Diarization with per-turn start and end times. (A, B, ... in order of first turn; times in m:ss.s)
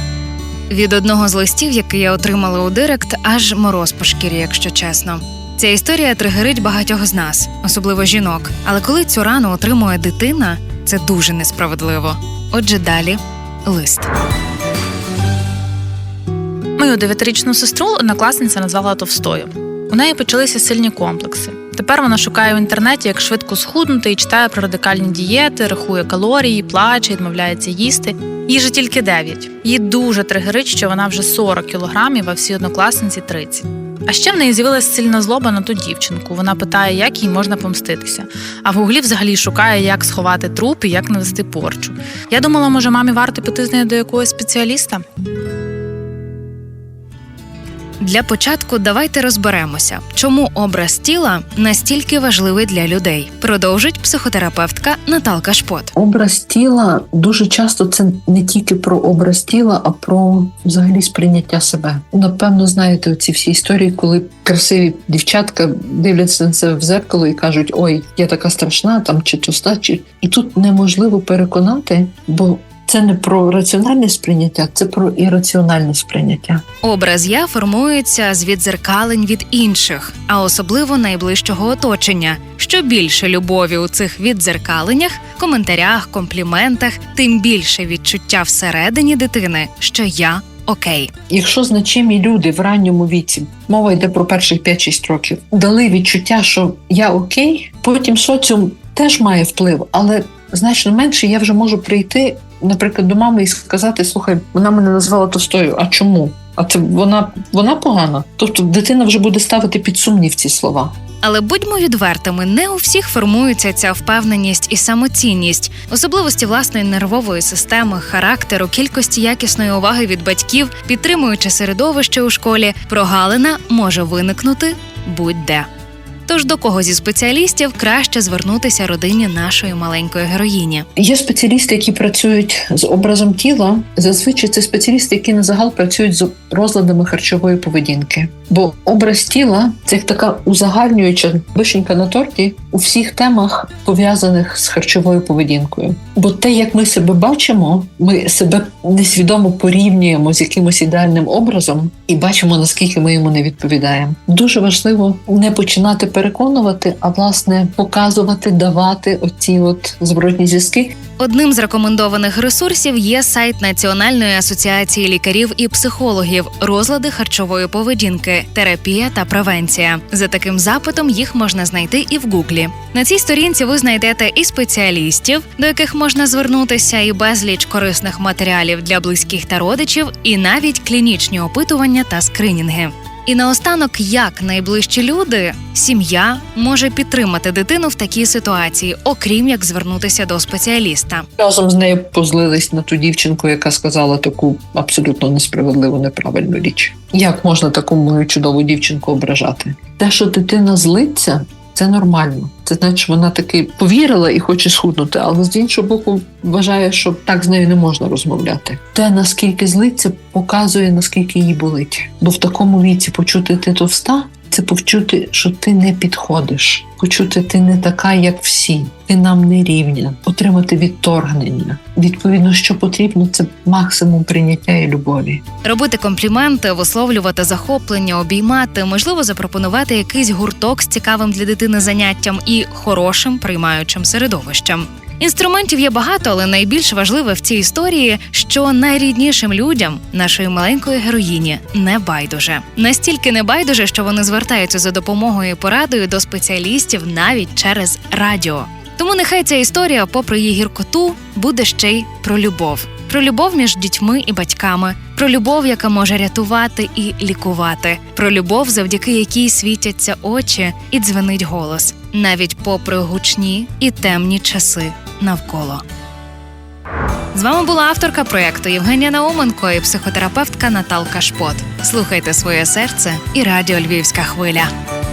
0:00.7-0:14.1 A
0:16.8-0:45.0 B
0:48.0-0:55.9 A
0:55.9-1:16.6 C
1:16.8-1:31.1 A
1:31.3-1:50.9 C
1:51.2-2:05.7 A
2:06.3-2:10.8 A
2:11.0-2:41.0 C
2:41.2-3:11.2 A
3:11.4-3:45.4 C
3:45.6-4:25.8 A
4:27.3-4:34.7 A